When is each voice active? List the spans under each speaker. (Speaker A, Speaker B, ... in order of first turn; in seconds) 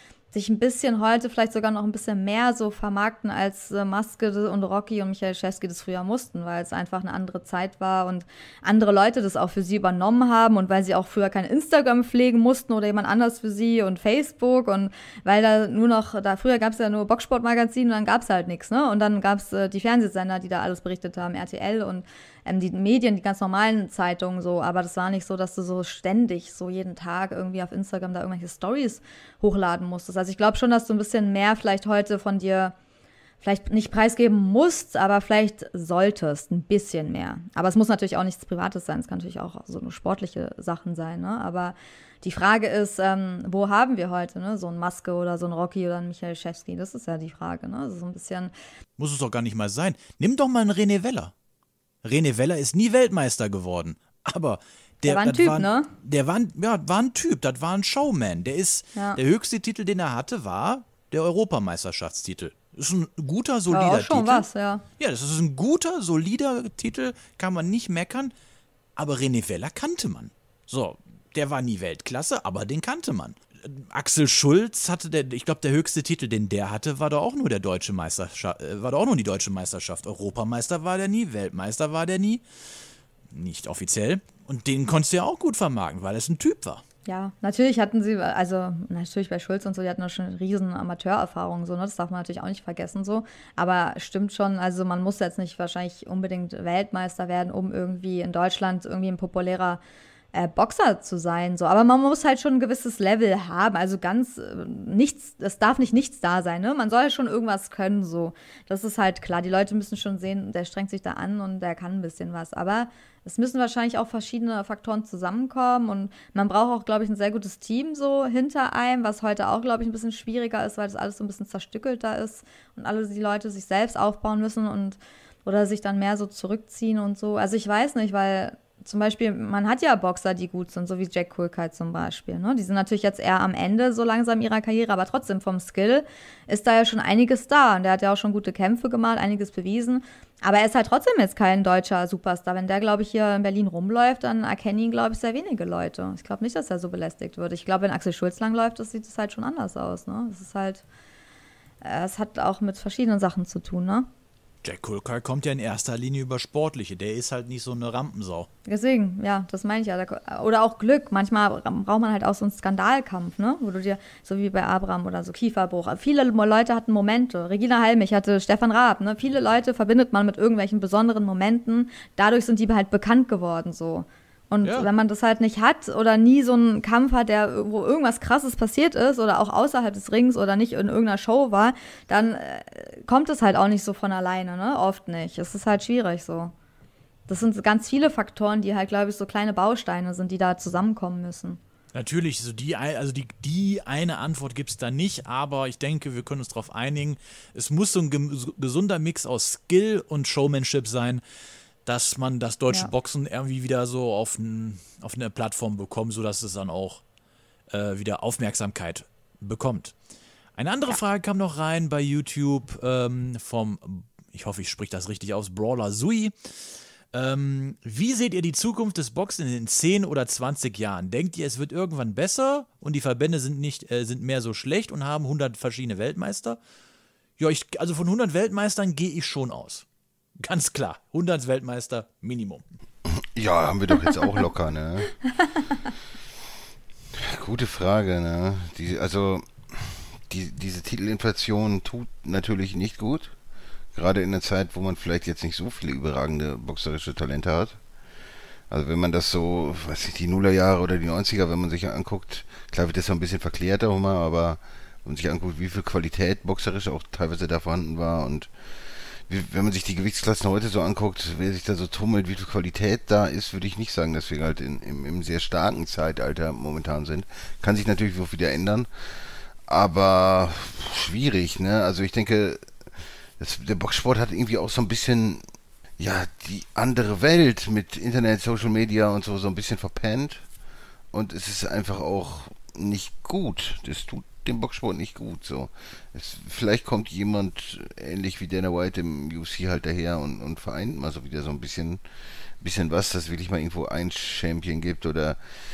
Speaker A: 0.3-32.8, 33.4-48.5, 55.0-55.9, 63.7-64.8, 87.1-99.8, 100.3-150.8, 151.8-154.1, 158.7-186.5, 187.3-191.6
Speaker B: 49.0-51.3, 52.0-64.5, 65.0-68.3, 69.0-82.4, 83.3-86.8, 154.6-158.5, 174.6-174.9, 191.9-201.2, 201.8-207.0, 207.7-209.9, 210.6-216.3, 217.1-226.6, 227.4-229.8, 230.4-232.6
Speaker C: 233.1-235.2, 237.1-243.3, 243.9-247.8, 248.7-258.5, 259.3-268.9, 269.7-272.6, 273.4-275.4, 276.0-280.4, 281.1-292.0, 292.6-295.4